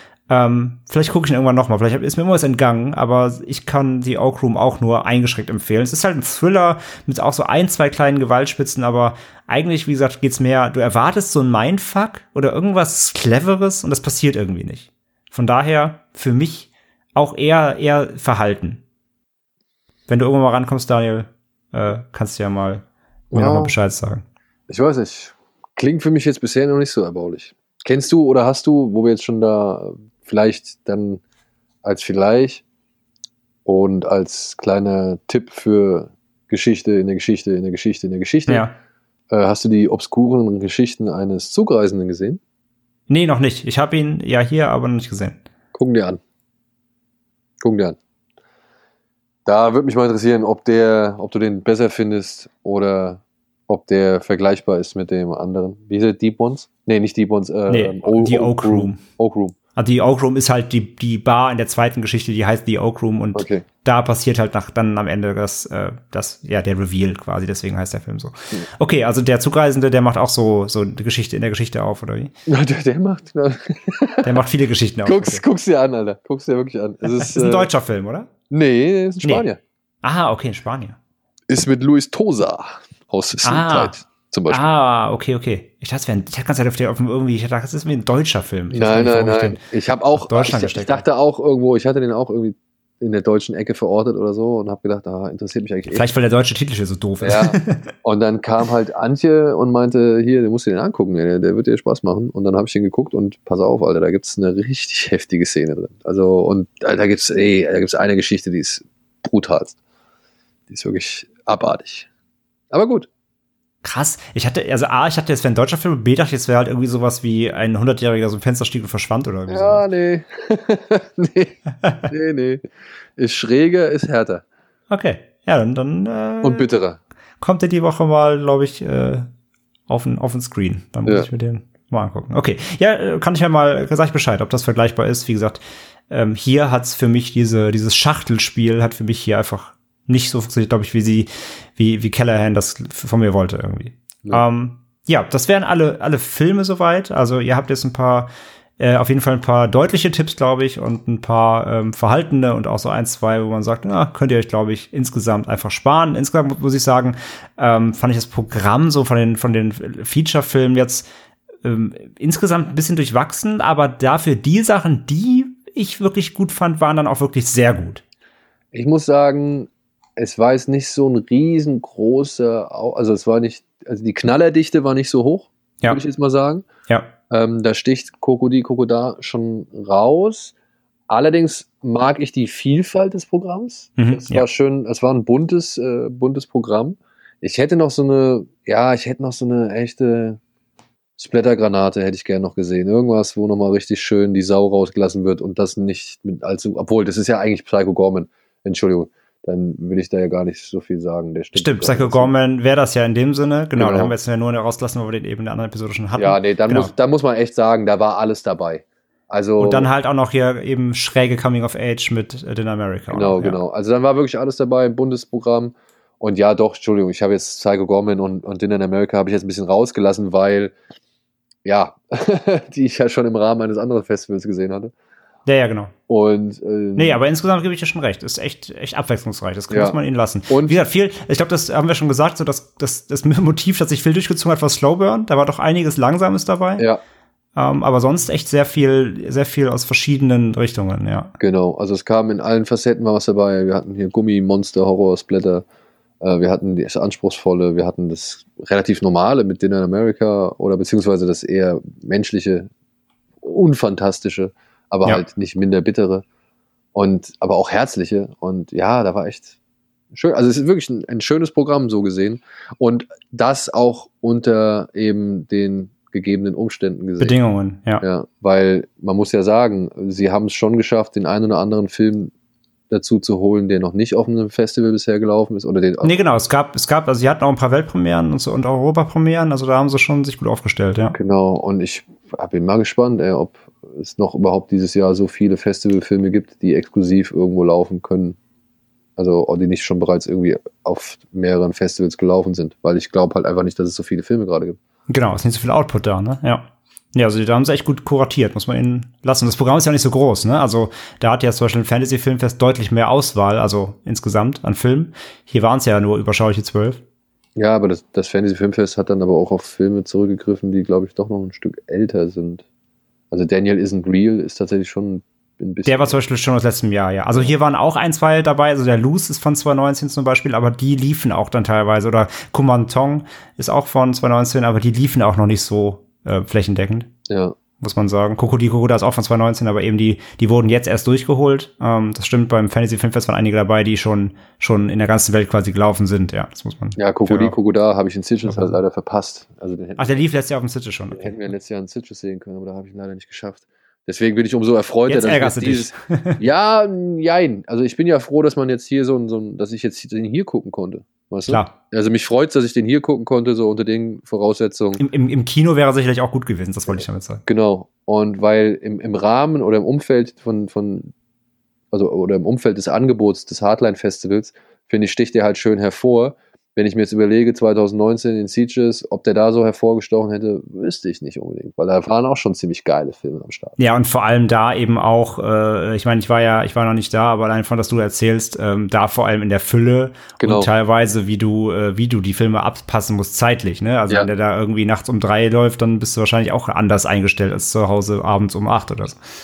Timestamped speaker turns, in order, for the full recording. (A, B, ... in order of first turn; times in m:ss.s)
0:00.3-0:18.8 A
0:20.1-0:24.2 A
0:23.3-0:23.8 B
0:24.7-0:31.2 B
0:31.8-0:32.6 B
0:33.6-0:38.6 B
0:38.5-0:38.8 A
0:39.3-0:42.4 B
0:43.1-0:45.4 A
0:45.7-0:46.2 B
0:47.6-0:48.0 B
0:49.4-0:59.5 B
0:57.7-0:59.0 A
0:59.8-1:12.3 A
1:03.3-1:03.6 B
1:12.5-1:14.4 B
1:14.2-1:15.4 A
1:15.0-1:17.7 B
1:17.1-1:18.3 A
1:18.5-1:19.6 B
1:20.0-1:21.0 A
1:21.5-1:24.6 B
1:23.4-1:23.9 A
1:24.5-1:29.6 A
1:28.7-1:36.0 B
1:30.1-1:31.0 A
1:35.9-1:37.9 A
1:37.2-1:49.8 B
1:50.7-1:52.1 B
1:52.7-1:53.1 B
1:53.8-1:59.8 A
1:59.5-2:02.6 B
2:03.2-2:04.4 B
2:04.9-2:06.6 A
2:06.4-2:07.0 B
2:07.4-2:09.3 A
2:09.9-2:41.1 A
2:41.6-2:48.0 A
2:48.7-2:56.6 B
2:56.9-2:57.1 A
2:57.3-3:00.5 B
3:01.1-3:10.4 B
3:04.0-3:04.4 A
3:11.2-3:22.3 B
3:21.5-3:26.9 A
3:23.7-3:24.1 B
3:26.2-3:29.9 B
3:29.6-3:33.6 A
3:33.1-3:40.7 B
3:41.6-3:44.9 B
3:45.5-3:45.9 A
3:46.1-3:47.2 B
3:47.0-3:56.8 A
3:49.7-3:50.0 B
3:50.5-3:50.8 B
3:57.6-4:01.3 A
4:01.4-4:05.6 B
4:06.2-4:12.7 B
4:13.4-4:16.2 B
4:16.9-4:19.5 B
4:20.1-4:27.3 B
4:27.2-4:28.0 A
4:28.0-4:32.3 B
4:32.9-4:36.1 B
4:36.0-4:41.2 A
4:41.1-4:48.4 B
4:49.2-4:54.8 B
4:55.1-5:07.0 A
5:07.6-5:12.6 B
5:13.3-5:16.2 B
5:15.8-5:27.1 A
5:27.3-5:27.6 B
5:27.8-5:37.6 A
5:37.0-5:40.2 B
5:38.4-5:38.8 A
5:40.0-5:41.4 A
5:41.1-5:55.0 B
5:45.1-5:46.4 A
5:51.5-5:51.7 A
5:55.0-5:57.4 A
5:56.9-6:01.1 B
6:01.9-6:13.7 B
6:13.8-6:29.2 A
6:20.4-6:20.7 B